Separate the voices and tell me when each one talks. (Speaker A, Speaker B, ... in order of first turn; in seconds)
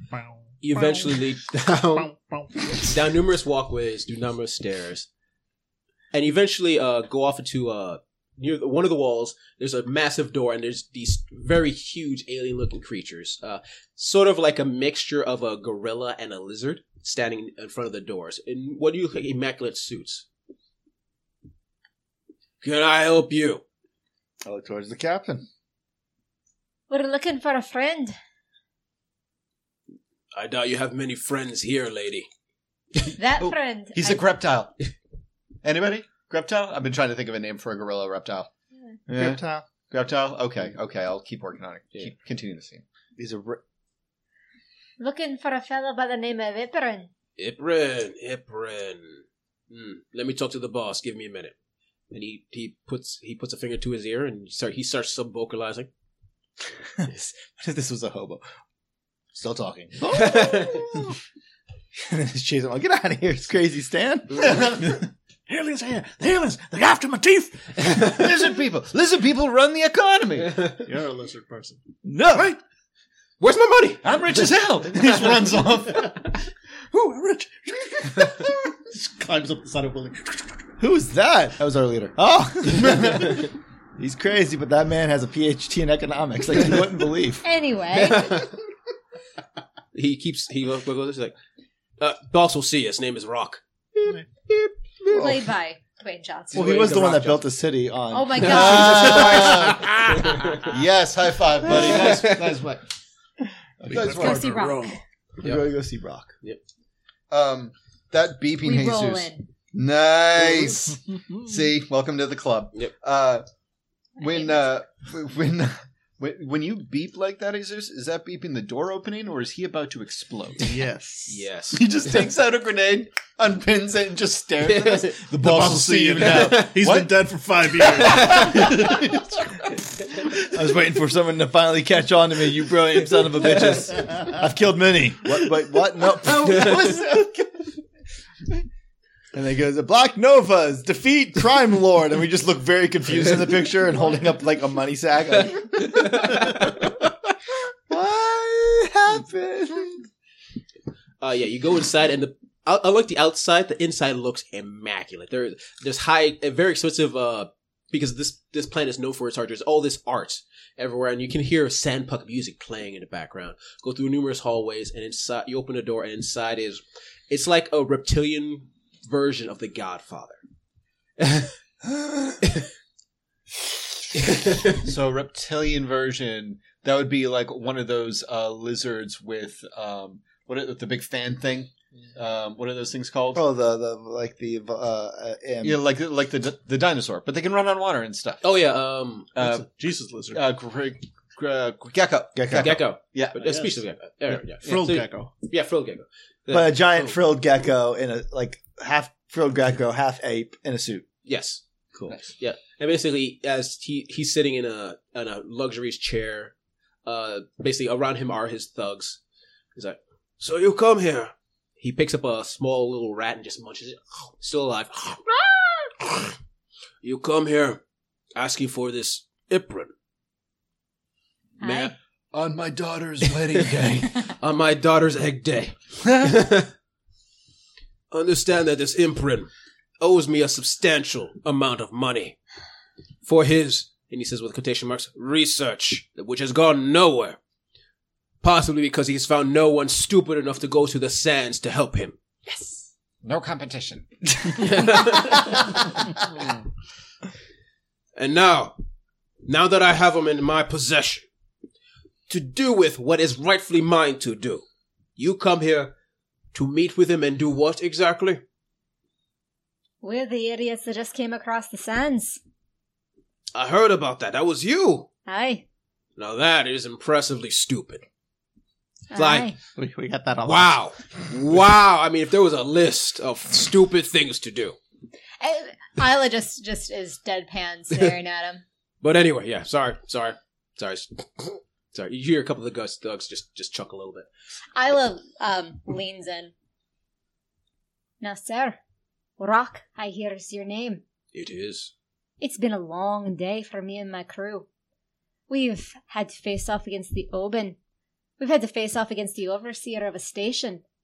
Speaker A: 0.1-1.2, 2.0-2.5, 70.8-71.8, 78.9-80.5, 103.9-105.0, 120.6-121.4, 125.3-129.1, 189.4-190.4, 194.6-195.3, 269.8-270.8
Speaker B: 0.6-2.1, 2.7-5.1, 6.1-20.2, 22.6-23.6, 30.3-32.3, 47.4-51.5, 52.1-55.9, 60.1-61.0, 73.4-74.0, 88.0-88.5, 89.9-91.3, 92.0-94.7, 96.5-97.4, 98.6-100.8, 101.7-102.7, 105.4-105.7, 121.3-121.9, 124.6-125.2, 126.2-126.7, 128.1-128.7, 133.3-134.2, 145.8-146.8, 151.2-170.4, 171.2-171.5, 174.1-174.9, 188.4-189.3, 192.5-197.2, 201.2-201.6, 202.2-206.5, 207.0-209.2, 209.7-216.3, 217.0-217.8, 218.3-219.9, 221.6-221.9, 223.3-226.7, 228.1-229.5, 230.0-232.4, 233.2-237.4, 238.4-242.2, 244.6-245.7, 248.2-248.8, 249.4-251.2, 252.3-254.6, 255.2-255.9, 256.5-258.4, 263.5-265.1, 266.2-268.0, 269.1-269.5, 270.4-274.8, 279.0-284.3, 291.3-291.9
Speaker C: 24.4-25.5, 39.1-39.7, 43.2-43.6, 57.0-58.4, 59.3-61.1, 61.9-68.0, 72.0-72.5, 76.9-78.4, 80.8-83.4, 84.0-87.4, 95.1-95.4, 96.5-99.9, 103.8-104.2, 105.4-106.3, 130.3-137.5, 139.3-146.4, 147.9-150.1, 183.3-185.8, 192.3-192.8, 196.5-201.0, 201.9-202.2
Speaker D: 26.9-28.2, 33.1-34.3, 45.0-47.1, 87.4-88.5, 95.1-96.9, 98.1-99.6, 104.1-105.0, 108.6-109.5, 114.2-114.6, 221.6-221.9, 242.5-242.8, 260.0-262.4, 265.3-265.6, 269.1-269.5, 275.4-278.6, 284.8-286.5, 288.2-288.8, 289.4-291.0, 292.4-294.6, 295.5-297.8, 298.4-300.8
Speaker E: 33.4-34.8, 35.6-38.5, 39.1-42.8, 64.5-64.9, 67.9-70.7, 74.0-76.2, 98.4-100.0, 100.6-102.8, 103.9-104.5, 107.3-113.4, 114.2-120.8, 121.7-129.3, 136.5-137.0, 174.8-183.4, 185.6-188.4, 189.3-189.7, 190.3-193.4, 222.3-224.3, 243.2-244.8